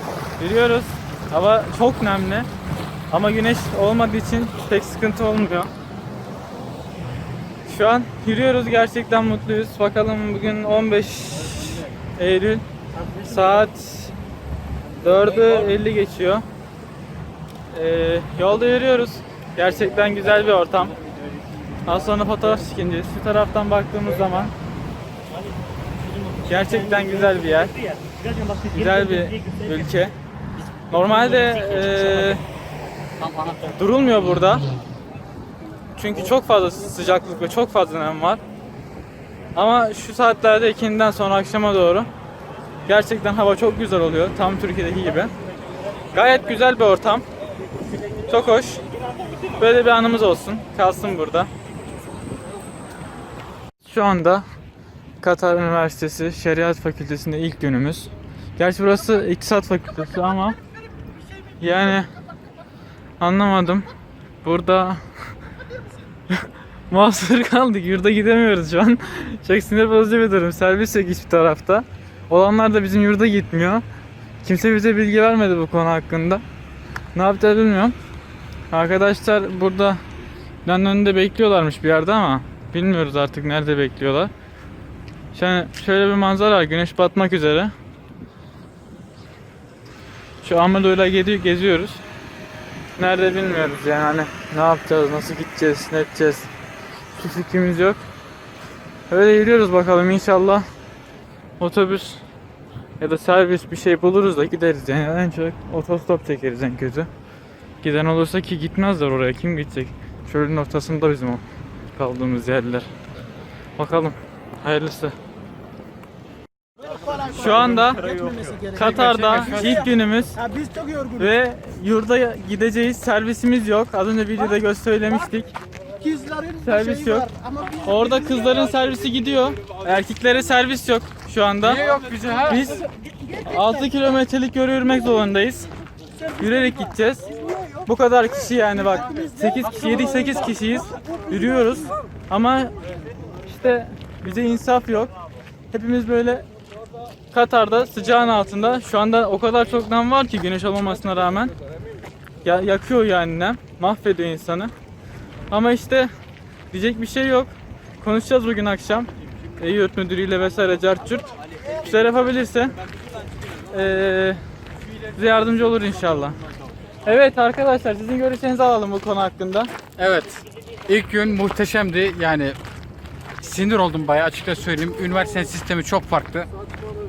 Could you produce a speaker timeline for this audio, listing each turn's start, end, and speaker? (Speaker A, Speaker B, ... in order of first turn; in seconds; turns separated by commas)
Speaker A: 0.4-2.5, Speaker A: 3.1-5.7, Speaker A: 7.7-12.6, Speaker A: 13.2-14.1, Speaker A: 15.0-16.4, Speaker A: 17.7-20.9, Speaker A: 21.8-24.5, Speaker A: 26.4-27.8, Speaker A: 28.7-30.2, Speaker A: 30.9-32.4, Speaker B: 33.2-33.8, Speaker A: 33.7-34.7, Speaker A: 35.9-38.4, Speaker A: 39.5-42.1, Speaker A: 42.9-45.3, Speaker A: 46.1-47.2, Speaker A: 48.2-48.8, Speaker A: 49.5-51.5, Speaker A: 53.8-54.5, Speaker A: 55.2-60.6, Speaker A: 61.6-62.1, Speaker A: 63.2-63.9, Speaker A: 64.4-65.0, Speaker A: 66.3-73.8, Speaker A: 74.4-76.4, Speaker A: 77.1-78.0, Speaker A: 78.7-80.0, Speaker A: 80.7-84.3, Speaker A: 85.3-87.7, Speaker A: 90.4-92.0, Speaker A: 93.0-96.5, Speaker A: 97.2-98.0, Speaker A: 99.1-100.7, Speaker A: 101.6-102.2, Speaker A: 103.0-107.1, Speaker A: 107.8-111.4, Speaker A: 112.0-112.9, Speaker A: 113.8-115.2, Speaker C: 116.8-121.3, Speaker A: 117.3-118.0, Speaker B: 118.0-118.4, Speaker A: 118.7-120.4, Speaker B: 119.0-119.8, Speaker A: 121.2-125.5, Speaker C: 126.0-128.7, Speaker A: 126.6-127.2, Speaker A: 127.8-131.9, Speaker B: 131.7-132.7, Speaker A: 132.5-132.9, Speaker C: 132.6-133.8, Speaker A: 133.4-135.7, Speaker C: 136.2-136.8, Speaker A: 136.4-137.3, Speaker A: 137.8-142.7, Speaker C: 138.8-141.4, Speaker A: 143.4-145.1, Speaker A: 145.7-146.5, Speaker A: 147.3-151.5, Speaker A: 152.4-154.7, Speaker A: 155.5-156.1, Speaker A: 156.7-162.8, Speaker A: 163.7-164.4, Speaker A: 165.1-166.4, Speaker A: 167.0-169.7, Speaker B: 170.0-172.6, Speaker B: 173.4-176.5